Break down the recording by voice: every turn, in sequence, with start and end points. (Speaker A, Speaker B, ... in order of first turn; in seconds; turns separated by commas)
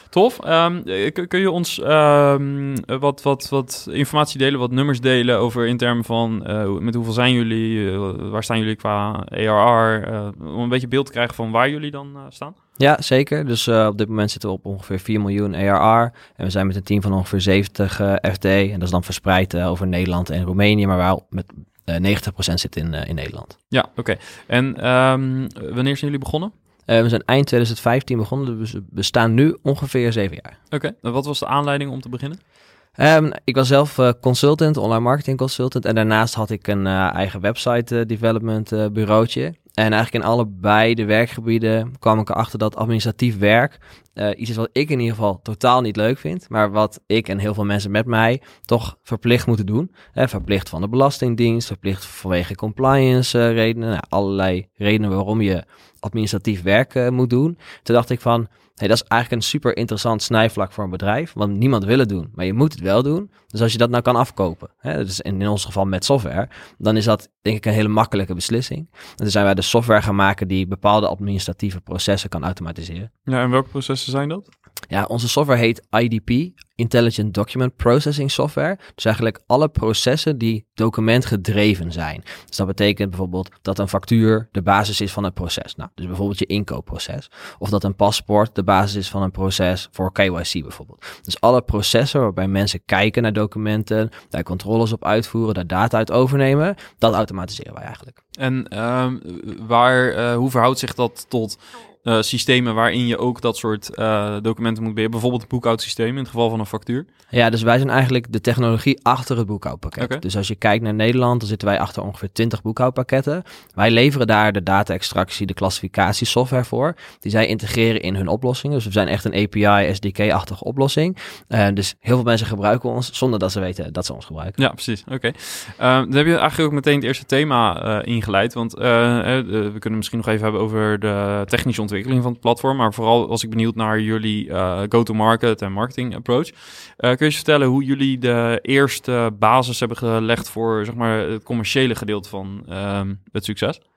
Speaker A: 0.1-12.6, Speaker B: 12.8-23.6, Speaker A: 23.7-26.5, Speaker B: 26.9-30.6, Speaker A: 30.7-32.4, Speaker B: 33.0-73.1, Speaker A: 73.3-74.5, Speaker B: 74.9-98.2, Speaker A: 98.4-107.1, Speaker B: 107.3-124.6, Speaker A: 124.6-143.8